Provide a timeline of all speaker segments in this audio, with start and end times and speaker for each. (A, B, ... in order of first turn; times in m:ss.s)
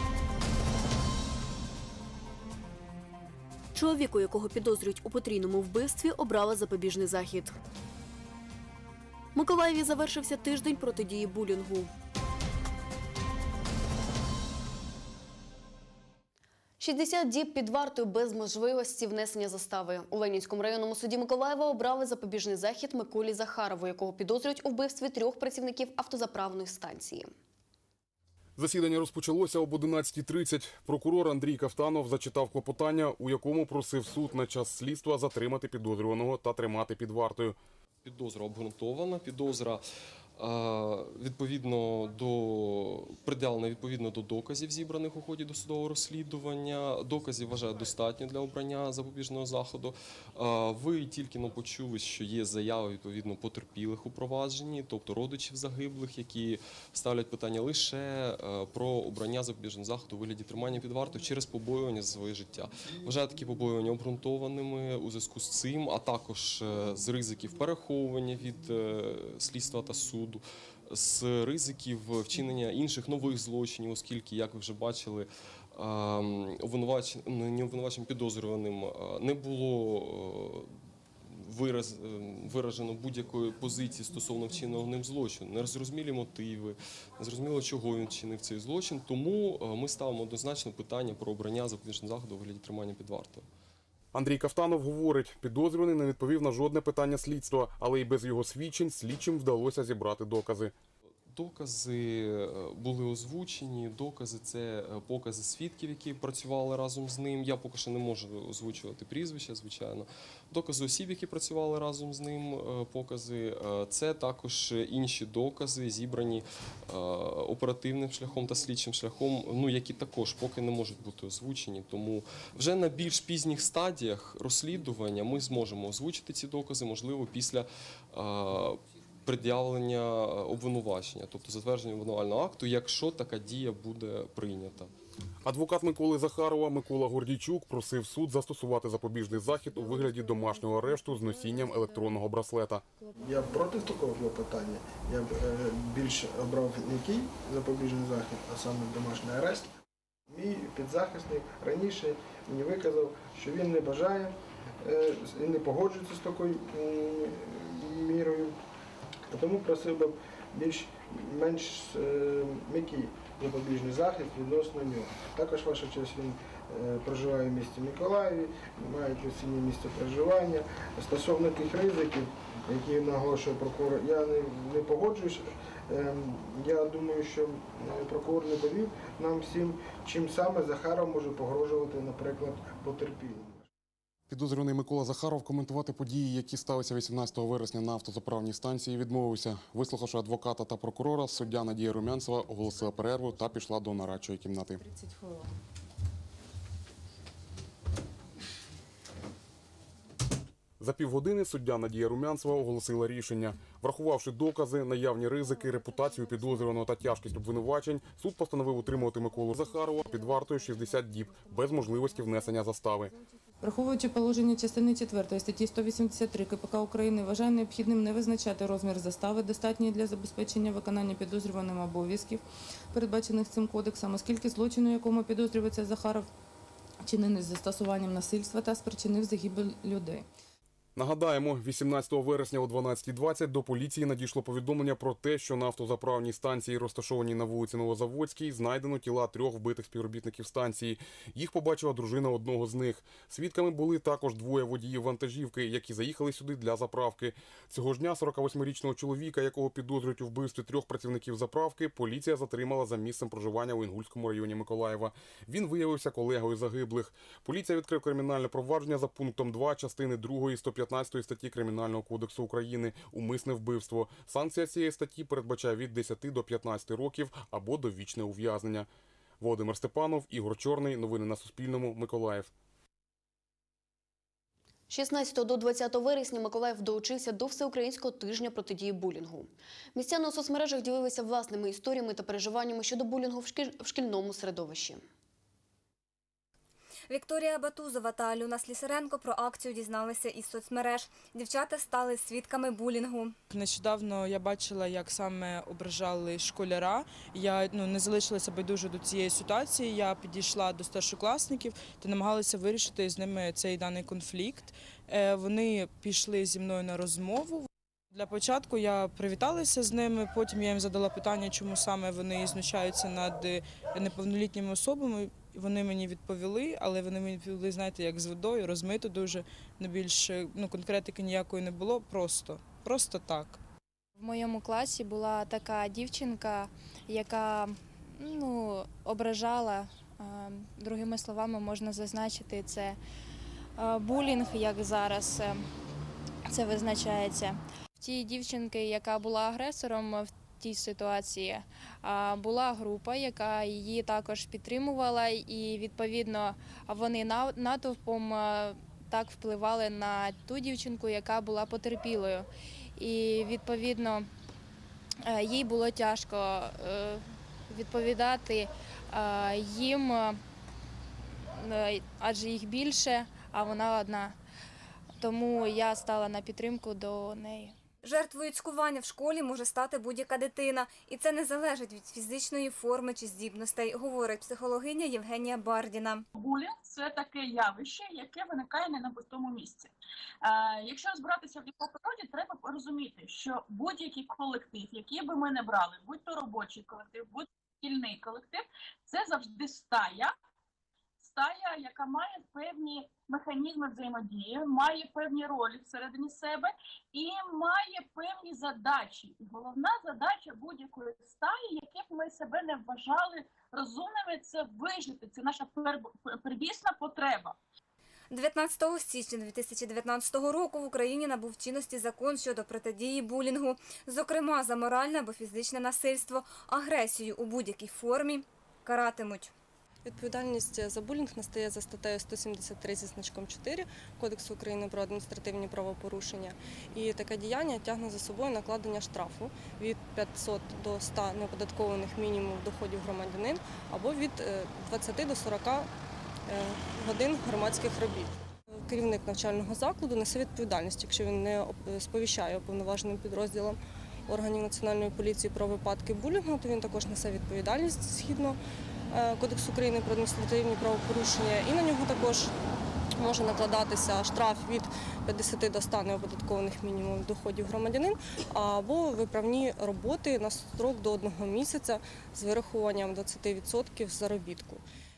0:03.8-0:07.6 A
0:09.4-0:11.9 A
0:16.8-0:27.3 A
0:28.6-0:37.6 B
0:38.0-0:39.8 C
0:40.4-1:20.7 C
1:21.3-1:33.5 C
1:34.1-1:40.7 B
1:41.3-2:14.9 C
2:15.4-2:22.8 B
2:23.2-2:29.7 D
2:30.3-2:38.6 D
2:39.3-3:03.7 D
3:04.3-3:14.8 B
3:20.8-3:33.1 B
3:33.7-3:42.4 E
3:42.9-3:46.2 E
3:47.0-3:50.2 E
3:51.0-4:28.9 B
4:29.4-4:32.5 B
4:34.9-4:45.0 A
4:47.1-4:53.4 F
4:53.5-5:23.6 G
5:24.2-5:33.0 H
5:33.8-5:35.6 H
5:36.5-5:54.3 H
5:55.2-6:00.4 H
6:01.6-6:04.4 H
6:05.2-6:07.7 H
6:08.0-6:16.2 F
6:16.4-6:19.9 I
6:20.4-6:30.3 I
6:31.2-6:47.6 I
6:48.3-6:59.5 F
7:00.0-7:15.9 J
7:16.5-7:28.6 J
7:29.1-7:32.5 J
7:33.2-7:44.8 J